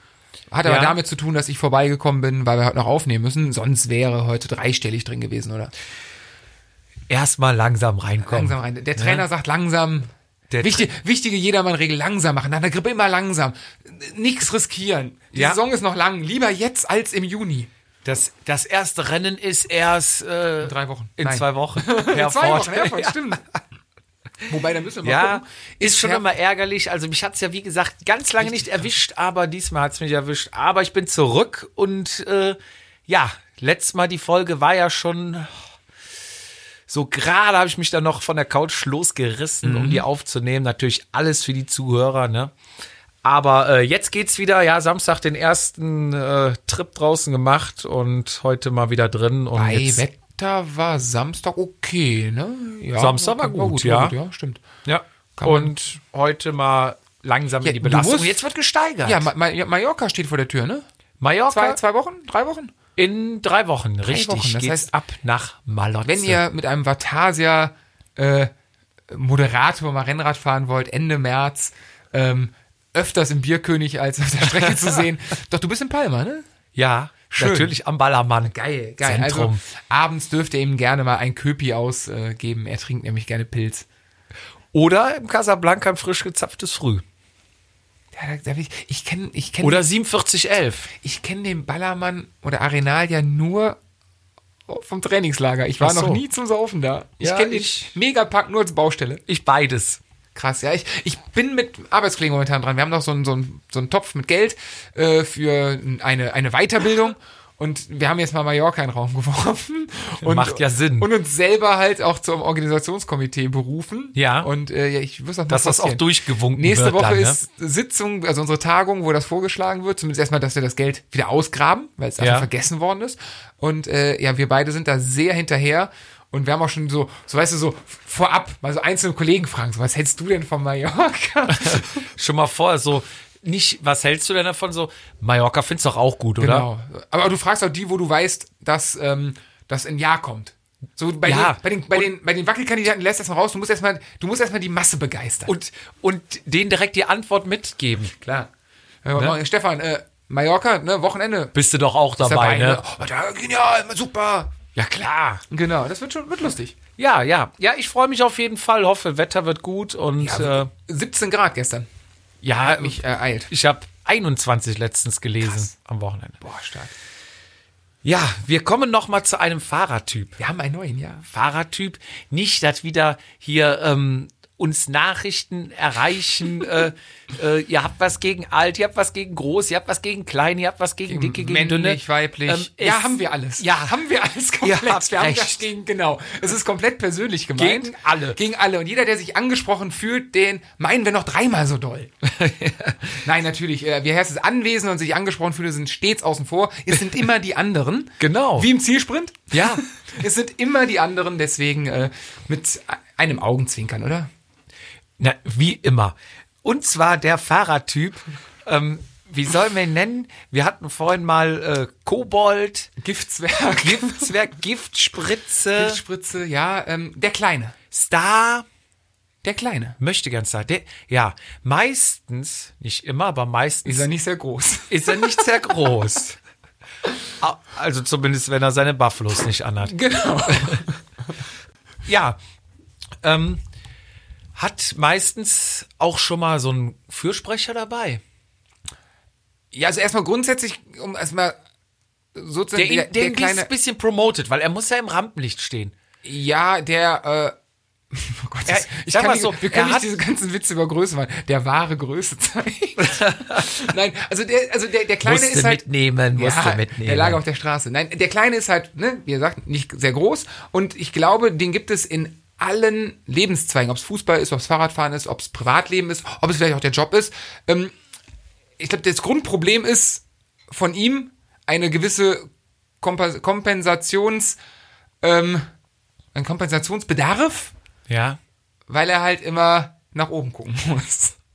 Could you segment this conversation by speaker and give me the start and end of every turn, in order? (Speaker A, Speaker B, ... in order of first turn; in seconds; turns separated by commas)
Speaker A: 0.5-5.7, Speaker B: 0.6-1.0, Speaker B: 7.1-9.2, Speaker A: 8.2-10.1, Speaker B: 10.5-10.9, Speaker A: 10.6-17.7, Speaker B: 18.1-23.4, Speaker A: 20.6-23.5, Speaker A: 24.4-26.2, Speaker B: 25.0-35.5, Speaker A: 28.4-28.9, Speaker B: 36.9-42.5, Speaker A: 39.6-40.0, Speaker B: 43.2-50.0, Speaker A: 49.5-54.6, Speaker B: 53.0-54.1, Speaker B: 54.9-59.3, Speaker A: 55.4-55.8, Speaker A: 57.6-58.4, Speaker A: 59.0-60.8, Speaker B: 61.2-61.8, Speaker A: 61.5-62.7, Speaker B: 63.0-66.4, Speaker A: 64.0-64.9, Speaker A: 66.0-68.5, Speaker A: 69.1-76.5, Speaker B: 74.4-75.0, Speaker B: 76.8-79.6, Speaker A: 77.3-77.8, Speaker A: 78.5-83.9, Speaker B: 84.7-87.0, Speaker A: 88.1-89.8, Speaker B: 89.6-90.9, Speaker A: 91.0-93.8, Speaker A: 94.7-99.2, Speaker B: 95.8-96.2, Speaker B: 97.2-97.9, Speaker B: 99.3-100.0, Speaker A: 100.3-116.0, Speaker B: 110.2-111.1, Speaker B: 114.2-114.5, Speaker B: 115.5-117.4, Speaker A: 116.5-132.1, Speaker B: 122.2-122.5, Speaker B: 131.5-136.7, Speaker A: 136.4-145.5, Speaker B: 141.2-142.1, Speaker B: 145.5-148.2, Speaker A: 148.2-148.5, Speaker A: 149.1-151.5, Speaker B: 151.5-152.8, Speaker A: 152.2-154.6, Speaker B: 154.8-155.4, Speaker A: 155.5-156.8, Speaker B: 157.0-160.7, Speaker A: 160.2-161.9, Speaker B: 162.4-166.4, Speaker A: 162.6-163.5, Speaker A: 166.4-166.9, Speaker B: 168.0-170.4, Speaker A: 170.4-171.3, Speaker B: 171.3-184.0, Speaker A: 181.1-192.1, Speaker B: 184.6-185.7, Speaker B: 187.6-188.4, Speaker B: 192.3-193.2, Speaker A: 193.2-204.3, Speaker B: 198.2-198.7, Speaker B: 199.5-199.8, Speaker B: 205.2-212.9, Speaker A: 213.0-214.4, Speaker B: 213.8-216.0, Speaker A: 215.8-217.8, Speaker B: 217.9-218.7, Speaker A: 219.4-220.0, Speaker B: 220.0-224.1, Speaker A: 223.9-225.6, Speaker B: 224.9-226.4, Speaker B: 227.4-229.9, Speaker A: 229.8-231.0, Speaker B: 230.5-230.8, Speaker B: 232.1-232.4, Speaker B: 233.2-233.6, Speaker B: 234.6-238.2, Speaker A: 239.7-241.6, Speaker A: 242.3-243.7, Speaker B: 242.8-245.9, Speaker A: 246.2-247.5, Speaker A: 248.1-267.9, Speaker B: 248.7-250.1, Speaker B: 253.0-253.9, Speaker B: 255.2-257.4, Speaker A: 268.8-272.5, Speaker A: 273.0-274.6, Speaker A: 275.2-275.7, Speaker A: 276.4-277.7, Speaker B: 278.1-278.4, Speaker A: 278.9-281.4